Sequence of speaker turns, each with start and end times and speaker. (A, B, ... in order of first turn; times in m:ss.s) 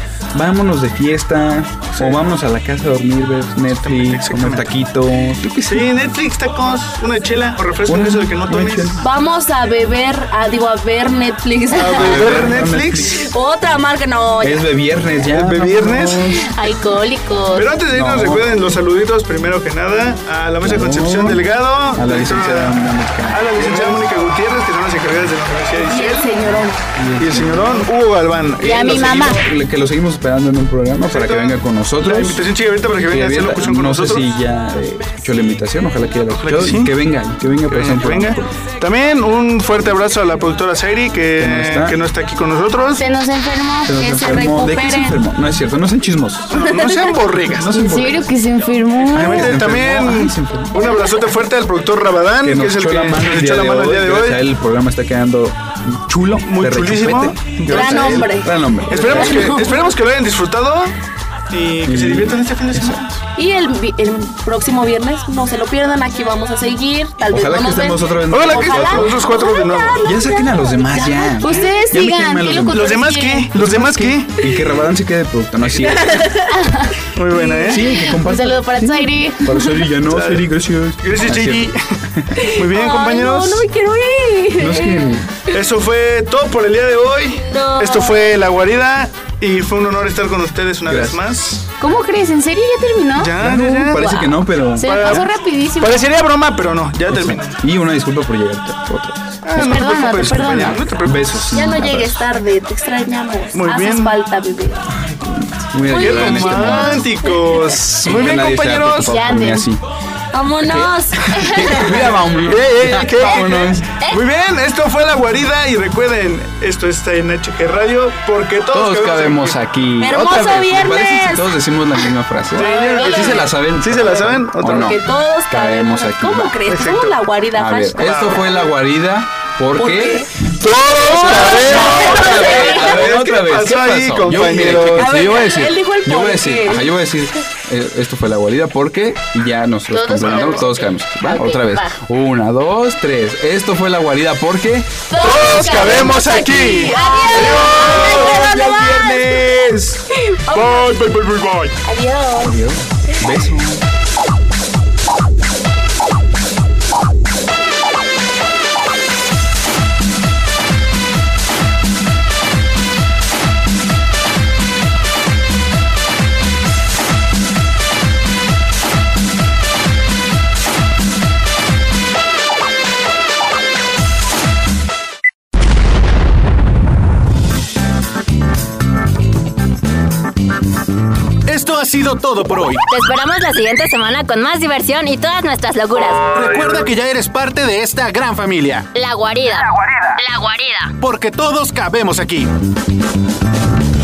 0:00.3-0:05.9 A
0:03.7-0:04.6 B
0:05.6-0:09.0 B
0:07.8-0:09.0 A
0:09.0-0:12.5 C
0:11.7-0:13.2 B
0:11.9-0:13.3 A
0:13.3-0:14.6 C
0:14.4-0:16.4 A
0:15.3-0:16.3 B
0:16.4-0:17.7 D
0:17.5-0:26.6 B
0:17.9-0:18.5 A
0:20.6-0:24.0 A
0:25.9-0:26.8 C
0:27.0-0:27.9 A
0:27.2-0:29.4 B
0:28.6-0:29.4 D
0:28.6-0:32.4 A
0:31.1-0:34.3 B
0:33.1-0:38.5 A
0:36.3-0:36.9 B
0:37.7-0:43.0 B
0:41.4-0:42.0 A
0:43.0-0:45.1 D
0:43.8-0:46.6 A
0:46.5-0:47.9 B
0:46.5-0:47.1 C
0:47.3-0:48.3 A
0:47.8-0:49.6 D
0:49.1-0:50.7 A
0:49.1-0:54.4 B
0:52.4-0:59.7 A
0:56.4-0:58.3 B
0:57.7-0:58.5 C
0:58.9-1:00.9 B
0:59.1-0:59.4 C
1:01.5-1:03.0 B
1:01.8-1:03.2 A
1:03.4-1:11.7 C
1:07.3-1:09.2 A
1:08.3-1:10.1 B
1:10.0-1:16.3 A
1:11.4-1:13.5 D
1:12.7-1:14.4 B
1:16.0-1:16.4 C
1:16.5-1:16.9 D
1:17.1-1:17.9 B
1:17.7-1:22.3 A
1:17.9-1:19.7 D
1:20.0-1:20.5 B
1:21.0-1:21.8 B
1:22.4-1:25.1 C
1:22.6-1:23.6 B
1:24.6-1:25.3 A
1:25.5-1:31.5 B
1:27.5-1:28.1 C
1:30.8-1:31.6 A
1:31.8-1:33.3 D
1:33.2-1:34.2 B
1:33.3-1:35.3 A
1:34.0-1:36.1 D
1:34.8-1:37.6 B
1:37.1-1:42.2 A
1:39.4-1:41.7 B
1:39.6-1:40.8 D
1:41.5-1:44.8 C
1:43.5-1:44.2 B
1:45.1-1:47.0 A
1:45.9-1:47.2 C
1:45.9-1:49.2 B
1:47.7-1:49.8 A
1:49.0-1:49.6 D
1:50.3-1:51.8 C
1:50.6-1:54.0 A
1:51.8-1:59.6 B
1:58.7-2:06.6 A
2:00.0-2:01.6 C
2:02.5-2:05.0 B
2:02.6-2:03.5 C
2:04.6-2:08.0 C
2:06.6-2:07.2 B
2:07.5-2:25.0 A
2:08.0-2:08.4 B
2:09.8-2:10.3 C
2:10.6-2:15.2 B
2:12.2-2:12.9 C
2:14.8-2:16.9 C
2:19.9-2:22.0 D
2:25.1-2:29.2 D
2:25.2-2:28.4 B
2:26.8-2:27.6 C
2:27.3-2:30.0 A
2:30.5-2:31.0 D
2:30.5-2:30.8 C
2:30.8-2:31.7 B
2:31.8-2:32.5 D
2:32.4-2:33.8 A
3:01.5-3:02.8 E
3:02.9-3:06.2 F
3:06.3-3:08.9 E
3:09.0-3:09.6 F
3:10.5-3:10.9 F
3:11.0-3:12.5 E